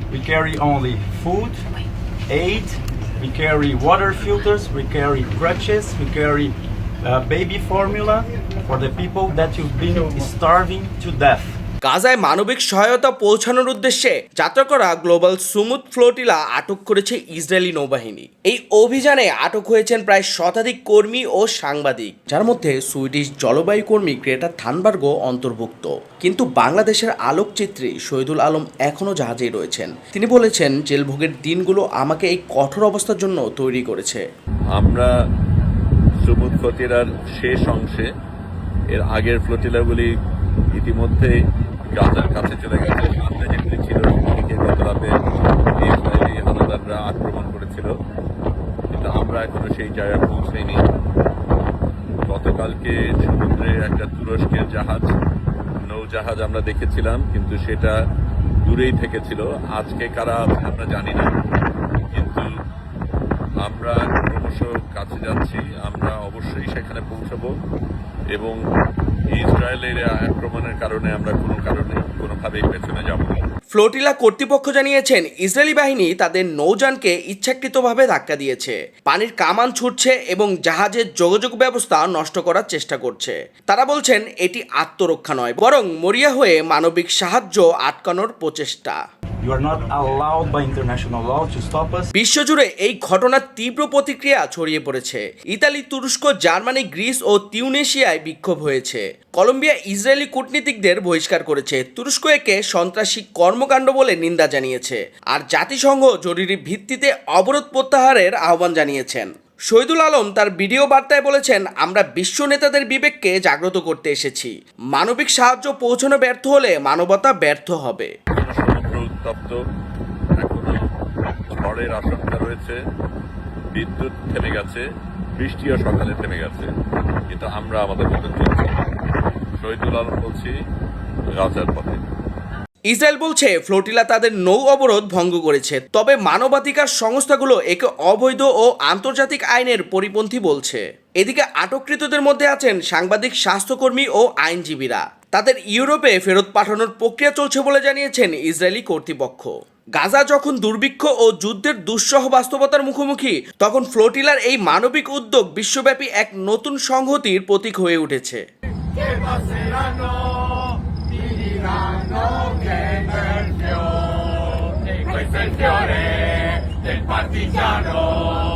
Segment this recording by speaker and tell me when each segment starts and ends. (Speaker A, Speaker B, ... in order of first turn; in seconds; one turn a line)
Speaker A: 0.1-1.6
Speaker A: 2.3-11.6
Speaker B: 11.8-34.2
Speaker C: 34.7-35.1
Speaker C: 36.2-38.1
Speaker C: 38.9-40.1
Speaker C: 40.8-41.3
Speaker C: 41.9-45.1
Speaker C: 45.8-47.9
Speaker C: 48.9-50.9
Speaker C: 52.3-55.1
Speaker C: 55.9-58.0
Speaker C: 58.6-61.4
Speaker C: 62.1-62.5
Speaker C: 63.6-67.5
Speaker C: 69.4-73.5
Speaker B: 73.7-89.0
Speaker A: 89.4-92.1
Speaker B: 92.2-118.1
Speaker C: 118.3-119.6
Speaker C: 120.4-120.8
Speaker C: 121.6-122.8
Speaker C: 123.7-124.8
Speaker C: 125.4-126.7
Speaker C: 127.3-128.8
Speaker C: 129.6-130.5
Speaker C: 131.4-132.0
Speaker B: 132.9-158.4